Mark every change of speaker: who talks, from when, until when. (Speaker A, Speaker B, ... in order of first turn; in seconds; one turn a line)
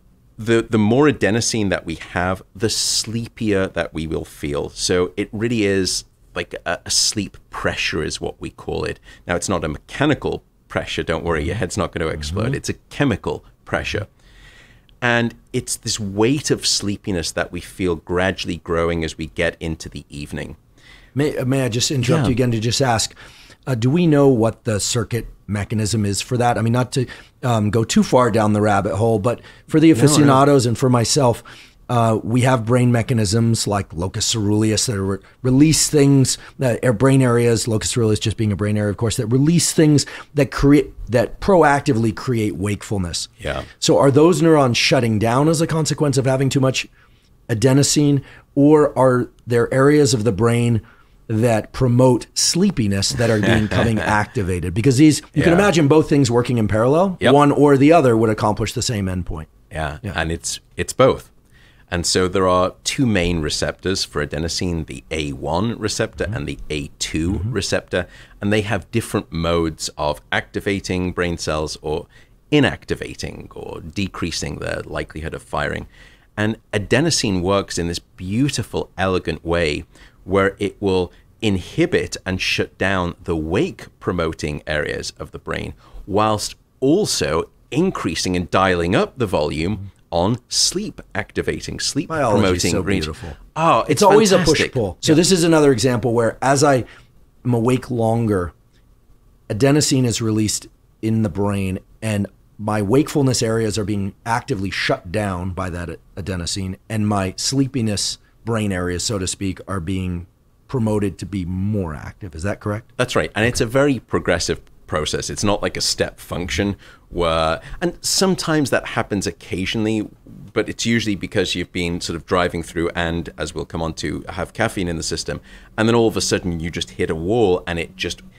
Speaker A: 0.4-14.1
Speaker A: 15.0-20.6
Speaker B: 21.1-23.1
Speaker A: 22.0-22.3
Speaker B: 23.7-46.9
Speaker A: 29.9-30.4
Speaker A: 43.4-43.7
Speaker B: 47.5-59.5
Speaker A: 53.5-53.8
Speaker A: 55.3-55.7
Speaker A: 59.7-61.3
Speaker A: 61.9-95.2
Speaker B: 92.1-96.8
Speaker B: 97.4-98.5
Speaker B: 99.5-112.9
Speaker A: 113.0-128.2